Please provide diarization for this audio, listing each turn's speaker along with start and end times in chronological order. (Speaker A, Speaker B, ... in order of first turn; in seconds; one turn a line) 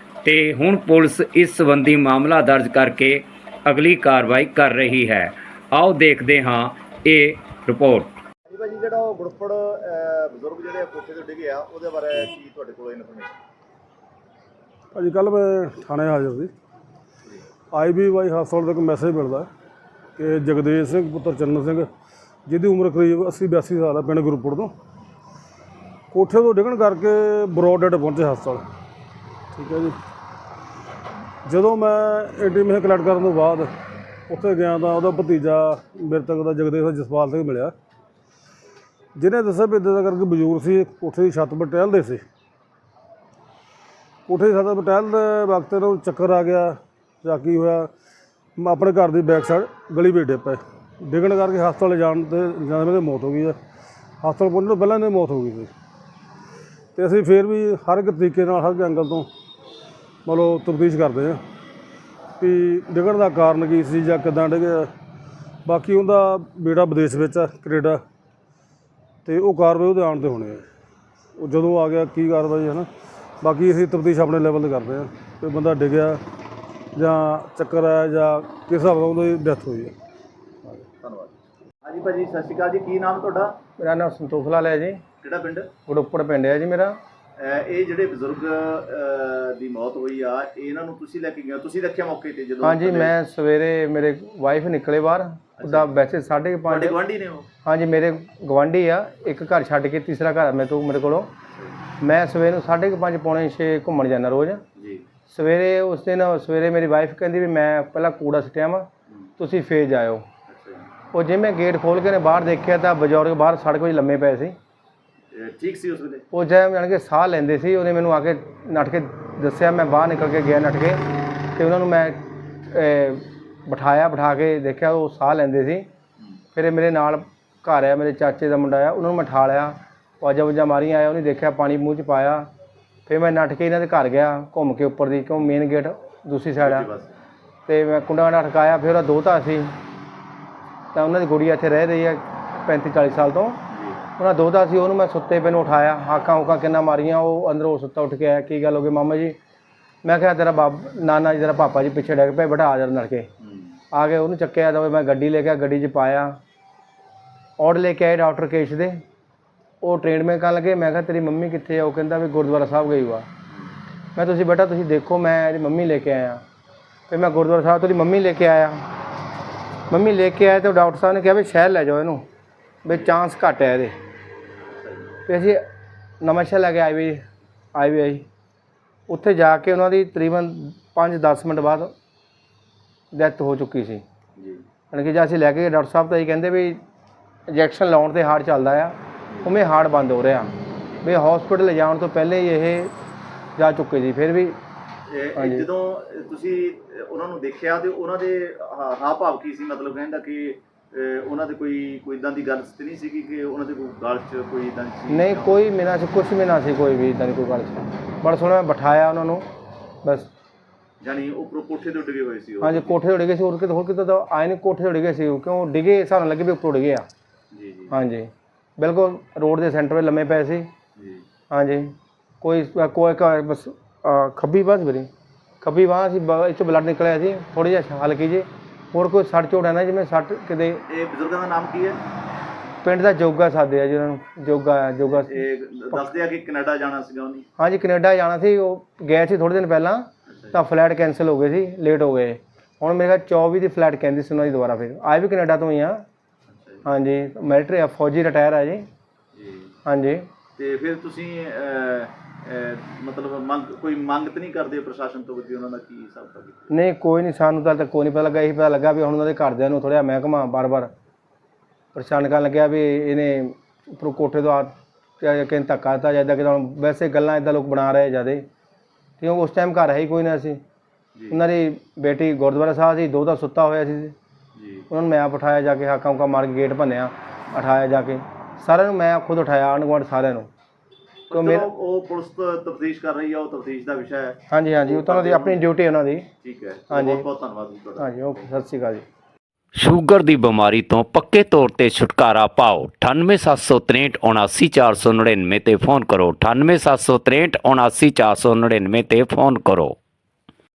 Speaker A: 0.2-8.1
Speaker B: 8.5-13.4
Speaker C: 14.9-16.5
Speaker C: 17.7-19.5
Speaker C: 20.2-21.9
Speaker C: 22.5-24.7
Speaker C: 26.1-28.6
Speaker C: 29.5-30.0
Speaker C: 31.4-33.7
Speaker C: 34.3-37.7
Speaker C: 39.1-42.2
Speaker C: 44.3-47.9
Speaker C: 48.6-53.6
Speaker C: 54.2-55.7
Speaker C: 56.9-59.3
Speaker C: 60.2-61.4
Speaker C: 62.4-64.9
Speaker C: 65.6-68.0
Speaker C: 69.2-70.6
Speaker C: 71.4-72.9
Speaker C: 73.4-76.2
Speaker C: 77.0-79.9
Speaker B: 81.0-83.6
Speaker D: 83.8-85.0
Speaker B: 85.2-85.7
Speaker D: 85.9-87.0
Speaker B: 87.4-93.1
Speaker D: 92.6-97.0
Speaker B: 95.6-95.9
Speaker B: 96.7-97.5
Speaker D: 97.6-101.3
Speaker B: 101.5-101.8
Speaker D: 102.0-104.6
Speaker B: 104.8-105.0
Speaker D: 105.3-108.9
Speaker D: 109.4-110.2
Speaker B: 110.5-110.9
Speaker D: 111.1-114.5
Speaker B: 115.3-116.2
Speaker D: 116.3-121.0
Speaker D: 121.5-125.9
Speaker D: 126.5-132.5
Speaker D: 133.1-136.9
Speaker B: 136.6-137.1
Speaker D: 137.7-139.7
Speaker D: 140.9-143.6
Speaker B: 143.7-144.0
Speaker D: 144.2-149.4
Speaker D: 150.0-153.3
Speaker B: 153.4-153.8
Speaker D: 153.9-156.4
Speaker D: 157.6-159.0
Speaker D: 159.8-163.3
Speaker B: 163.5-163.7
Speaker D: 164.2-166.4
Speaker D: 167.1-168.8
Speaker D: 169.9-172.2
Speaker D: 172.8-173.9
Speaker B: 174.8-175.1
Speaker D: 175.3-175.6
Speaker D: 176.2-178.2
Speaker D: 179.1-181.9
Speaker D: 183.1-184.0
Speaker B: 184.4-184.6
Speaker D: 184.9-186.8
Speaker D: 187.5-190.5
Speaker D: 191.0-192.9
Speaker D: 193.6-194.6
Speaker B: 195.1-205.6
Speaker D: 195.3-195.7
Speaker D: 205.1-209.4
Speaker D: 210.0-210.3
Speaker B: 211.0-213.0
Speaker D: 212.6-217.1
Speaker B: 217.5-217.9
Speaker D: 217.9-220.7
Speaker B: 220.9-221.2
Speaker D: 221.5-225.1
Speaker D: 225.6-230.8
Speaker B: 230.9-232.0
Speaker D: 232.8-236.0
Speaker B: 235.1-237.4
Speaker D: 237.6-246.0
Speaker B: 240.3-240.6
Speaker B: 246.5-246.8
Speaker D: 246.8-248.8
Speaker B: 249.3-249.8
Speaker D: 249.8-250.2
Speaker B: 250.6-256.7
Speaker D: 256.7-260.9
Speaker D: 261.9-268.4
Speaker D: 269.2-270.6
Speaker B: 271.1-271.4
Speaker D: 271.3-274.1
Speaker B: 274.6-274.9
Speaker D: 274.9-280.5
Speaker B: 281.3-285.6
Speaker D: 281.3-281.7
Speaker D: 284.5-286.3
Speaker B: 286.4-288.6
Speaker D: 286.9-287.2
Speaker D: 288.0-289.0
Speaker A: 289.8-299.9